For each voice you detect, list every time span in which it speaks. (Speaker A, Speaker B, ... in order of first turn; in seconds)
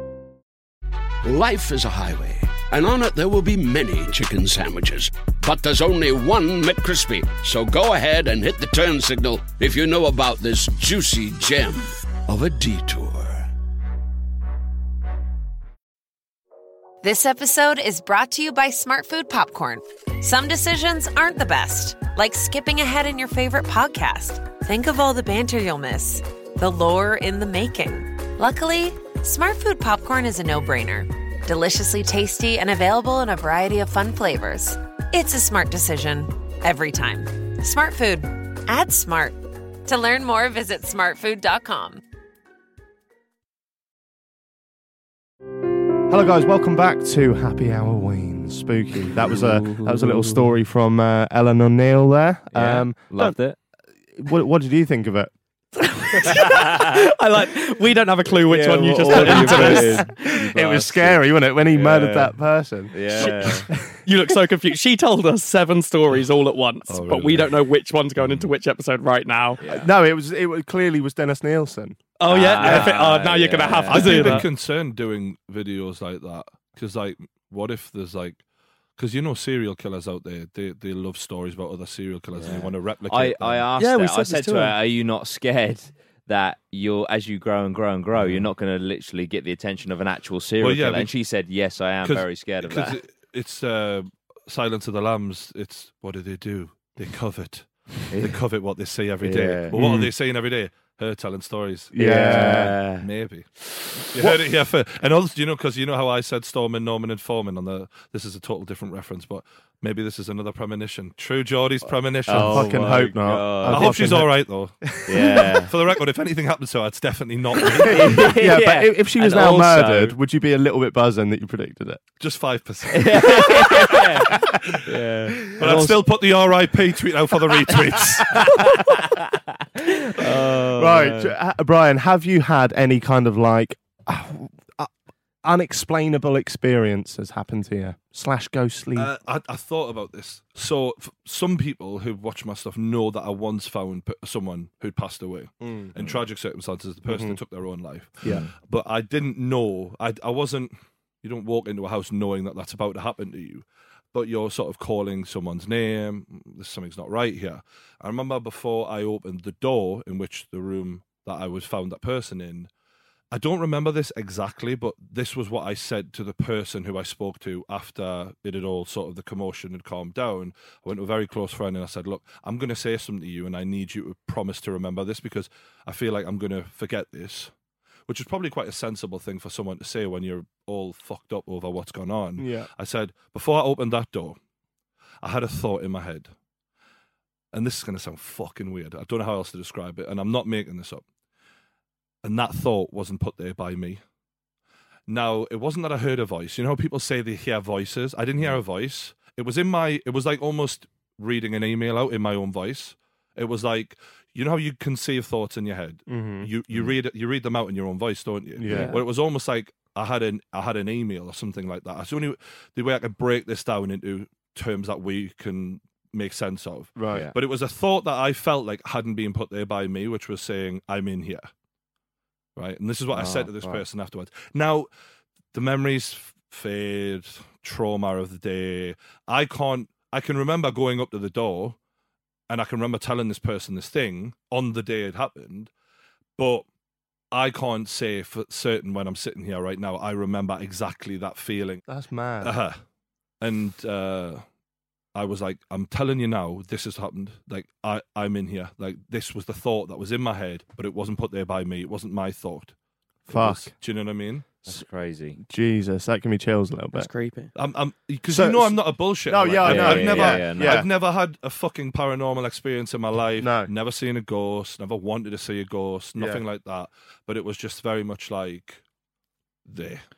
Speaker A: 1.2-13.5
Speaker B: 17.0-42.0
Speaker C: 46.1-53.4, 54.1-55.3, 59.1-63.9, 69.7-72.1, 72.6-72.9, 99.7-100.1, 101.9-102.7, 112.3-115.5, 117.6-122.0, 123.6-124.6, 130.2-134.9, 135.4-139.1, 145.6-145.9, 147.1-147.4, 182.4-182.7, 206.1-206.5, 208.6-209.0, 216.9-217.3, 241.9-242.6, 253.3-253.7, 255.4-257.1, 258.3-260.9, 263.4-263.7, 266.2-266.4
Speaker D: 49.2-50.5, 52.5-53.6, 56.5-56.8, 58.5-62.4, 62.9-63.7, 69.6-69.9, 72.3-74.4, 82.3-93.0, 99.2-99.8, 102.0-103.0, 112.3-114.0, 115.0-115.7, 117.8-120.2, 122.9-126.0, 128.3-131.3, 148.2-148.5, 223.1-223.8, 254.7-255.4, 259.6-260.8
Speaker E: 55.8-60.1, 63.1-69.6, 72.2-74.5, 83.8-84.8, 256.9-257.5
Speaker F: 66.9-67.6, 68.2-68.5, 73.9-78.4, 79.0-83.6, 90.6-91.1, 92.0-101.9, 103.0-113.0, 113.7-114.9, 115.7-118.1, 122.2-123.5, 125.5-128.5, 138.9-162.7, 163.3-177.5, 178.1-184.4, 185.2-186.3, 187.5-191.0, 192.2-194.0, 195.1-221.5, 222.6-224.9, 225.5-231.8, 232.5-235.7, 236.4-236.6, 237.3-241.8, 242.4-242.8, 243.4-244.4, 245.1-252.7, 253.2-254.6, 257.5-268.8, 269.6-270.0